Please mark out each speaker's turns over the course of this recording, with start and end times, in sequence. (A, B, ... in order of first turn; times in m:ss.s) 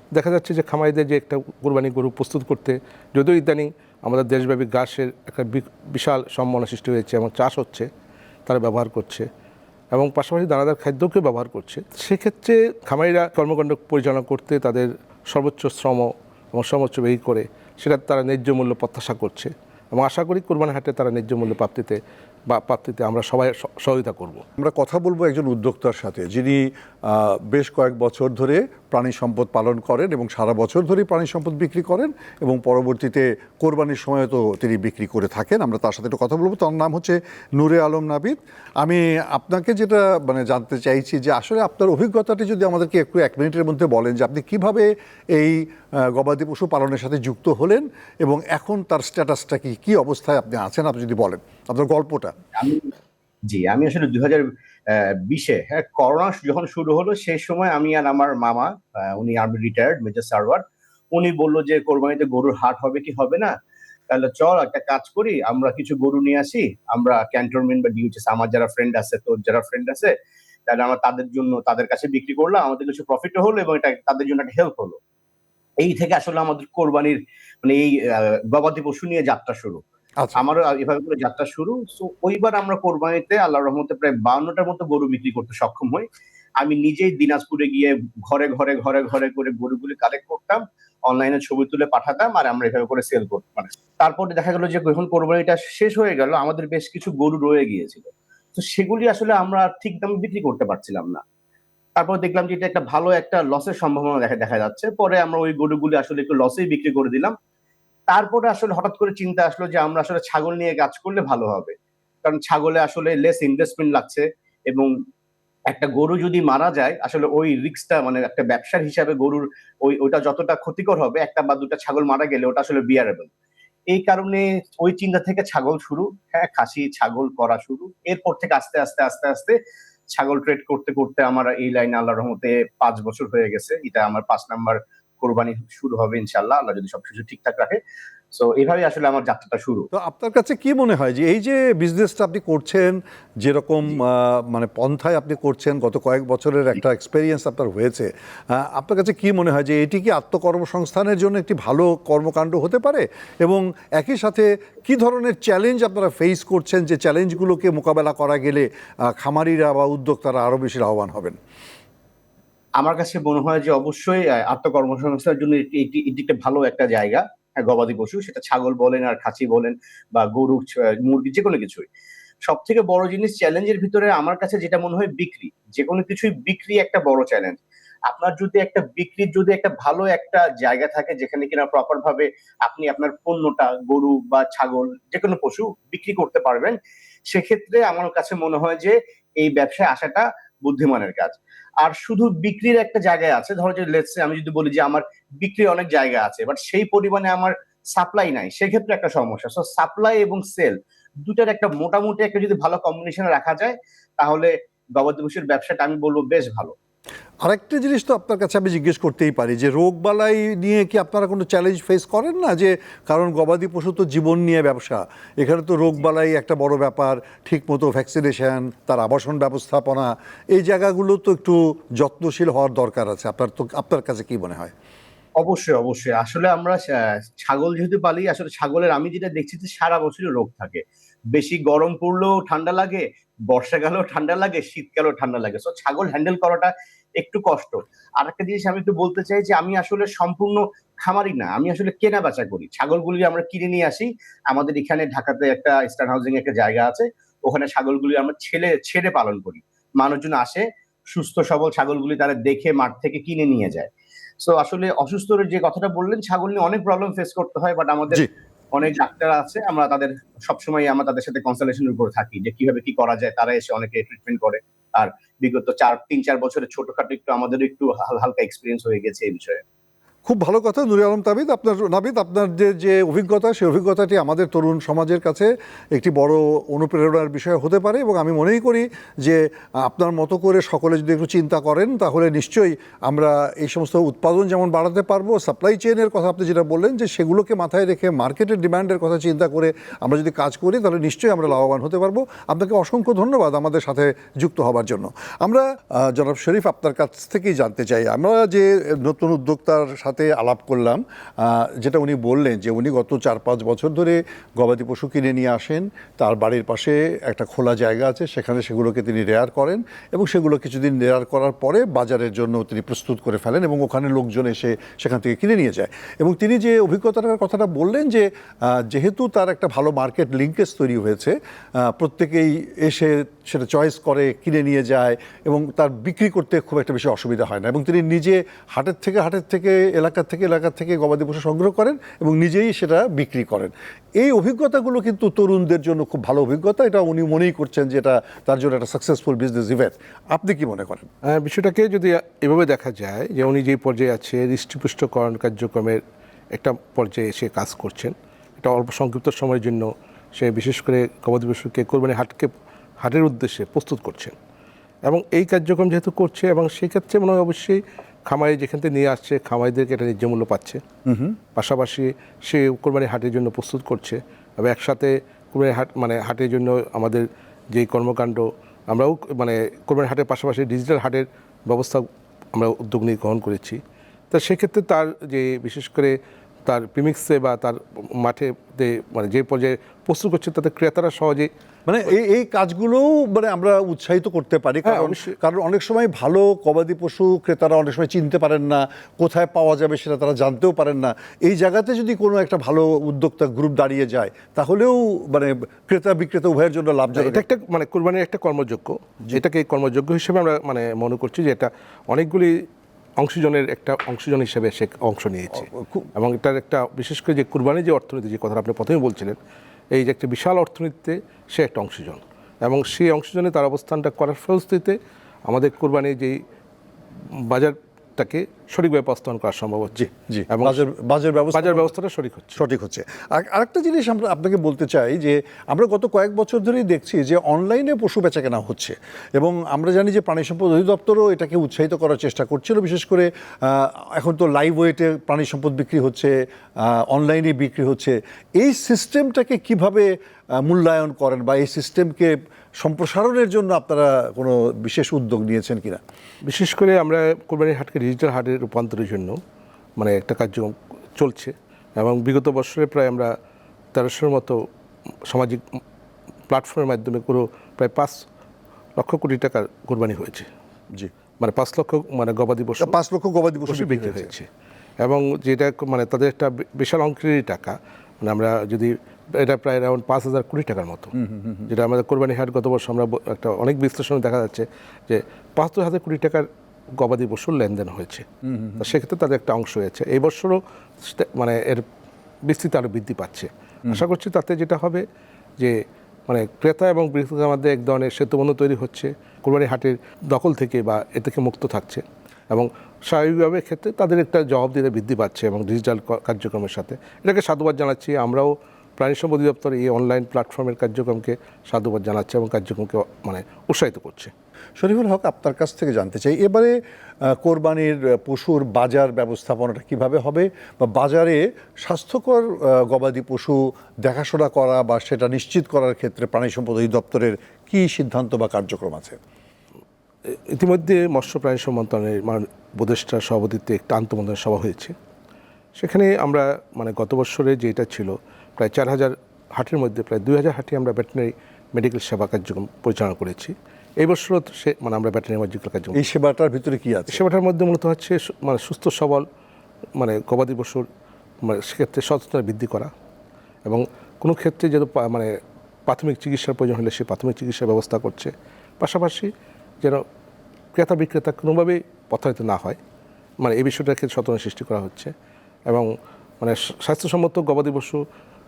0:00.1-0:07.9 A
0:08.4-0:09.3 A
0:09.9-0:22.0 A
0:22.5-0:24.4 A
0:24.6-0:52.3 B
0:52.6-0:52.9 C
0:53.5-1:00.6 C
1:01.1-1:03.5 C
1:04.1-1:10.1 C
1:10.7-1:15.0 C
1:15.8-1:19.8 C
1:20.4-1:26.0 C
1:26.6-1:41.2 C
1:42.0-1:47.3 C
1:48.1-1:54.9 C
1:55.7-2:03.3 C
2:03.9-2:09.6 C
2:10.1-2:17.8 C
2:18.3-2:19.9 C
2:19.9-2:38.6 B
2:39.2-2:41.4 B
2:42.8-2:51.9 C
2:52.5-3:06.8 C
3:07.3-3:26.7 C
3:27.4-3:44.7 B
3:45.4-3:50.8 C
3:51.3-4:13.9 C
4:14.4-4:29.6 C
4:30.2-5:41.1 B
5:41.2-5:46.0 A
5:46.5-5:54.3 A
5:55.0-6:00.8 A
6:01.1-6:01.3 B
6:01.5-6:13.8 A
6:14.3-6:21.5 A
6:21.9-6:37.4 B
6:24.8-6:25.3 A
6:37.2-6:42.5 A
6:43.2-6:49.4 A
6:45.6-6:46.1 B
6:49.9-6:56.4 A
6:57.3-7:00.8 A
7:00.0-7:01.9 B
7:01.5-7:02.6 A
7:02.6-7:16.3 B
7:16.8-7:20.1 B
7:20.6-7:26.0 B
7:26.4-7:29.4 A
7:30.0-7:33.3 A
7:33.9-7:34.6 A
7:35.3-7:35.6 A
7:36.5-7:38.2 A
7:39.0-7:40.5 A
7:41.4-7:42.9 A
7:42.8-7:44.3 B
7:43.6-7:44.5 A
7:45.0-7:51.1 A
7:51.2-7:51.7 B
7:51.7-7:56.5 A
7:57.0-7:58.2 A
7:58.4-7:58.8 B
7:58.8-8:01.8 A
8:02.4-8:05.0 A
8:05.6-8:24.3 A
8:24.8-8:26.7 B
8:27.4-8:39.2 B
8:40.3-8:44.9 A
8:45.8-8:56.1 A
8:55.9-8:57.2 B
8:57.1-8:59.2 A
9:00.0-9:00.8 A
9:01.4-9:02.9 A
9:03.6-9:05.3 A
9:05.9-9:09.3 A
9:10.7-9:12.8 A
9:13.4-9:15.1 A
9:15.7-9:18.0 A